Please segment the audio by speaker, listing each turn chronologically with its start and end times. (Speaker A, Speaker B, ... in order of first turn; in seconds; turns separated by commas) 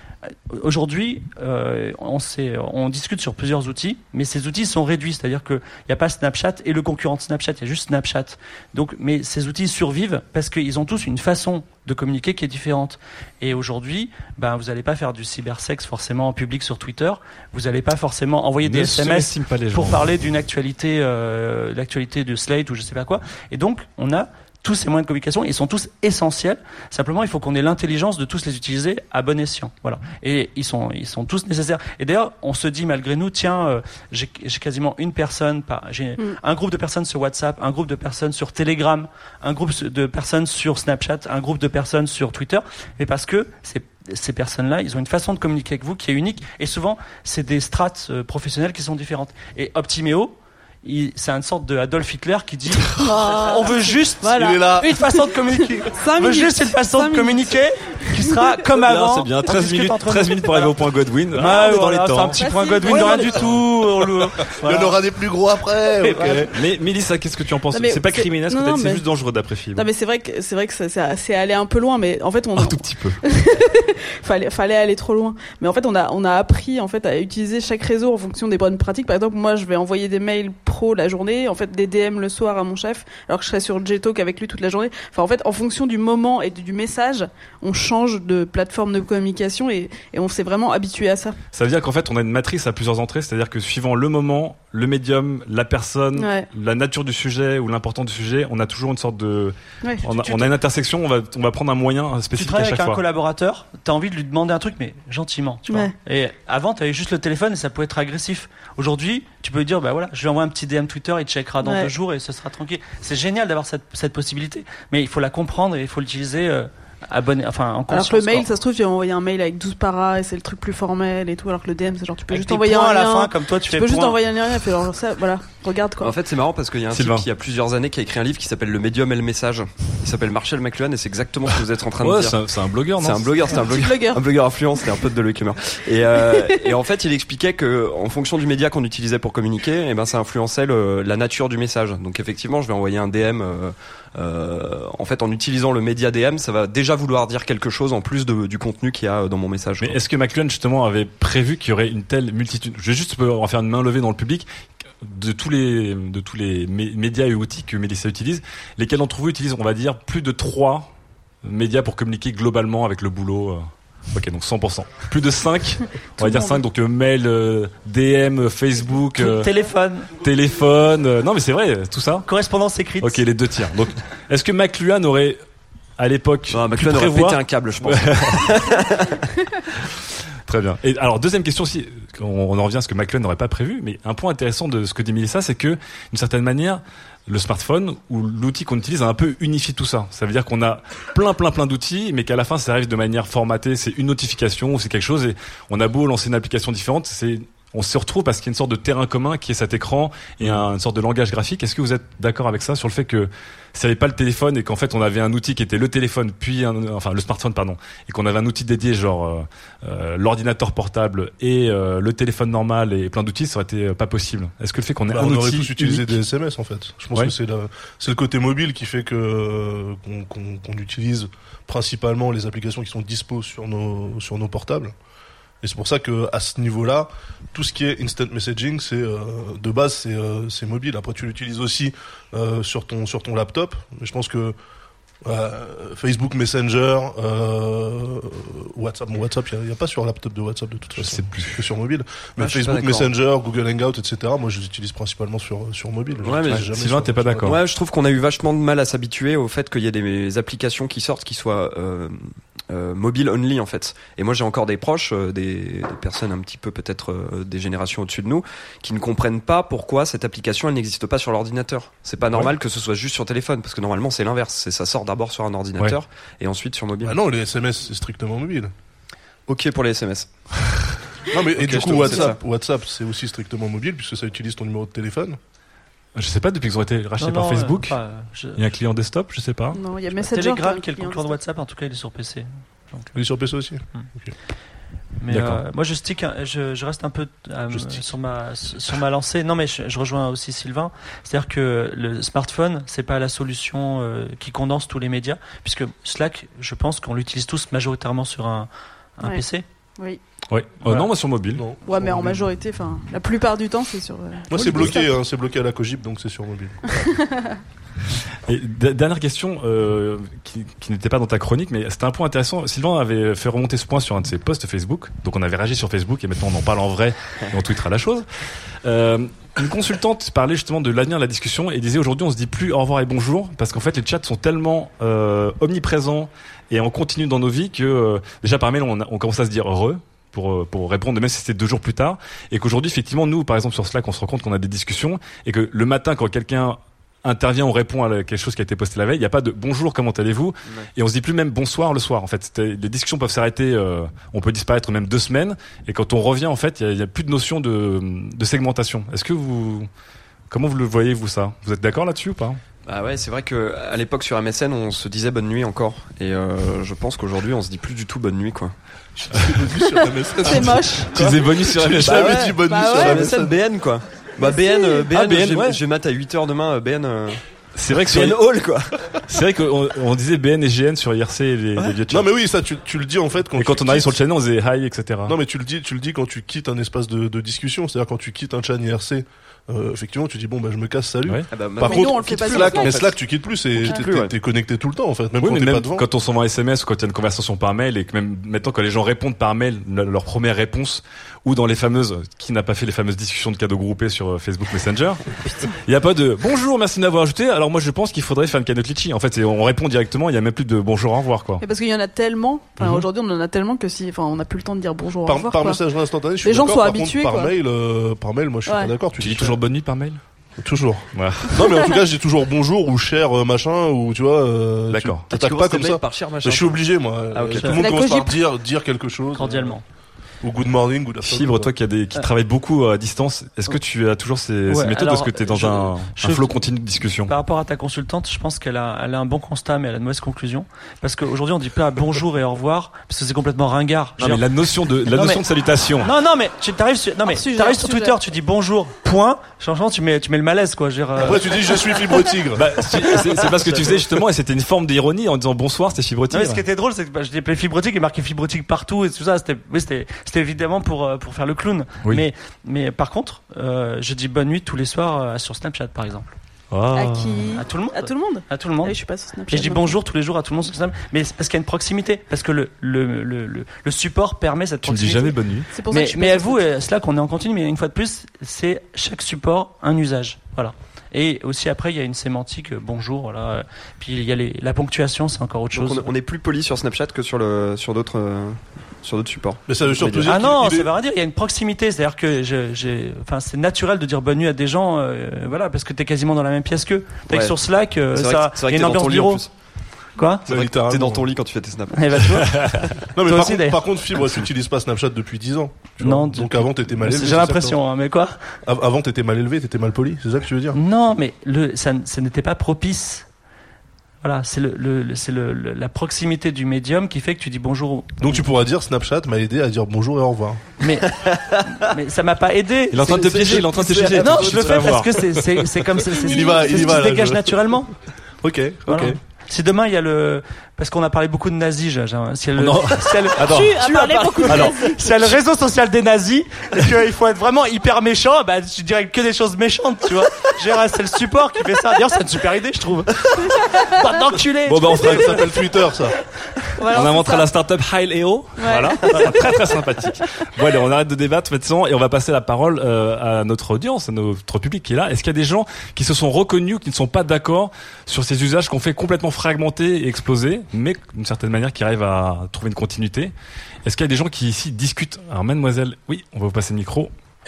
Speaker A: 0.5-60.8, Speaker B: 18.6-20.0, Speaker C: 53.0-55.1, Speaker D: 54.2-55.0, Speaker C: 55.9-57.5, Speaker B: 58.8-62.5, Speaker A: 61.3-65.0, Speaker C: 62.3-63.2, Speaker D: 62.9-63.5, Speaker D: 64.6-66.5, Speaker A: 66.0-66.5, Speaker B: 66.5-69.9, Speaker C: 67.7-69.0, Speaker C: 69.7-91.3, Speaker B: 72.6-73.2, Speaker B: 91.5-103.0, Speaker C: 96.2-96.5, Speaker C: 99.8-100.4, Speaker A: 102.3-118.5, Speaker C: 105.7-105.9, Speaker C: 111.6-111.9, Speaker C: 117.9-126.1, Speaker A: 122.3-124.2, Speaker E: 126.0-132.4, Speaker B: 126.9-127.2, Speaker B: 132.0-133.3, Speaker E: 132.9-150.0, Speaker C: 133.6-134.2, Speaker B: 149.8-154.5, Speaker B: 155.0-160.9, Speaker B: 161.4-169.5, Speaker C: 166.2-166.6, Speaker A: 169.2-170.1, Speaker B: 170.1-172.3, Speaker A: 172.3-173.2, Speaker B: 173.0-175.4, Speaker B: 176.0-178.4, Speaker E: 176.5-179.2, Speaker B: 180.4-216.1, Speaker D: 215.1-224.9, Speaker D: 225.6-234.5, Speaker D: 235.2-247.5, Speaker B: 241.0-241.5, Speaker E: 242.4-243.1, Speaker E: 246.2-246.7, Speaker B: 246.5-247.6, Speaker E: 247.4-267.2, Speaker D: 267.0-268.7, Speaker E: 269.5-270.3, Speaker D: 271.3-275.4, Speaker E: 271.6-272.4, Speaker B: 276.1-278.0, Speaker A: 277.2-278.6, Speaker B: 278.6-279.8, Speaker C: 279.7-281.4, Speaker A: 280.1-283.1, Speaker D: 283.1-284.3, Speaker A: 285.2-299.6, Speaker B: 285.3-285.6, Speaker D: 287.7-288.0, Speaker B: 300.5-301.6, Speaker D: 301.5-302.5, Speaker C: 301.9-305.1, Speaker D: 304.5-307.0, Speaker C: 307.0-307.5, Speaker B: 308.5-318.2, Speaker B: 318.8-349.9, Speaker B: 350.5-352.6, Speaker E: 352.9-358.7, Speaker D: 359.2-363.6, Speaker C: 360.4-361.1, Speaker B: 361.1-362.4, Speaker E: 362.0-367.4, Speaker C: 362.7-363.4, Speaker C: 364.4-365.1, Speaker B: 365.1-365.8, Speaker B: 367.7-368.4, Speaker E: 367.9-368.9, Speaker B: 369.3-372.3, Speaker D: 372.1-374.2, Speaker B: 373.6-375.3, Speaker D: 375.3-386.0, Speaker E: 381.5-383.2, Speaker C: 381.8-383.0, Speaker E: 383.7-384.3, Speaker B: 385.4-401.6, Speaker C: 401.6-405.8, Speaker B: 402.8-403.1, Speaker D: 405.2-409.6, Speaker C: 406.4-407.5, Speaker B: 409.2-410.2, Speaker D: 410.6-419.8, Speaker B: 411.1-411.5, Speaker B: 414.9-415.3, Speaker E: 415.3-417.8, Speaker C: 417.7-418.4, Speaker A: 419.3-419.8, Speaker D: 420.4-421.7, Speaker B: 421.2-427.3, Speaker A: 424.7-426.5, Speaker A: 427.3-434.4, Speaker B: 434.2-436.1, Speaker A: 435.1-435.4, Speaker A: 436.0-441.9, Speaker C: 437.2-438.1, Speaker D: 441.2-442.7, Speaker B: 442.5-446.6, Speaker A: 446.3-456.3, Speaker B: 456.7-457.4, Speaker C: 456.9-459.9, Speaker A: 457.5-458.9, Speaker A: 459.5-465.4, Speaker B: 464.8-465.7, Speaker C: 465.7-466.6, Speaker A: 465.9-476.1, Speaker E: 475.7-480.4, Speaker D: 479.7-480.9, Speaker A: 480.2-489.4, Speaker E: 487.3-487.5, Speaker E: 488.1-489.5, Speaker A: 490.2-490.4, Speaker D: 490.5-491.2, Speaker E: 490.5-492.2, Speaker A: 491.9-492.5, Speaker B: 492.5-492.8, Speaker D: 493.1-497.8, Speaker A: 493.2-493.8, Speaker A: 496.0-498.4, Speaker D: 498.6-500.8, Speaker A: 500.7-503.2, Speaker A: 504.2-508.4, Speaker D: 508.2-510.6, Speaker A: 510.8-511.2, Speaker A: 511.7-517.9, Speaker B: 512.9-515.1, Speaker D: 514.2-515.1, Speaker D: 516.2-517.5, Speaker C: 516.3-516.8, Speaker D: 518.4-519.2, Speaker A: 518.9-535.4, Speaker B: 522.6-523.9, Speaker C: 523.5-524.9, Speaker B: 524.4-524.8, Speaker B: 534.7-535.4, Speaker D: 534.8-536.1, Speaker C: 536.8-537.5, Speaker B: 536.9-553.3, Speaker C: 538.6-539.3, Speaker B: 553.8-557.1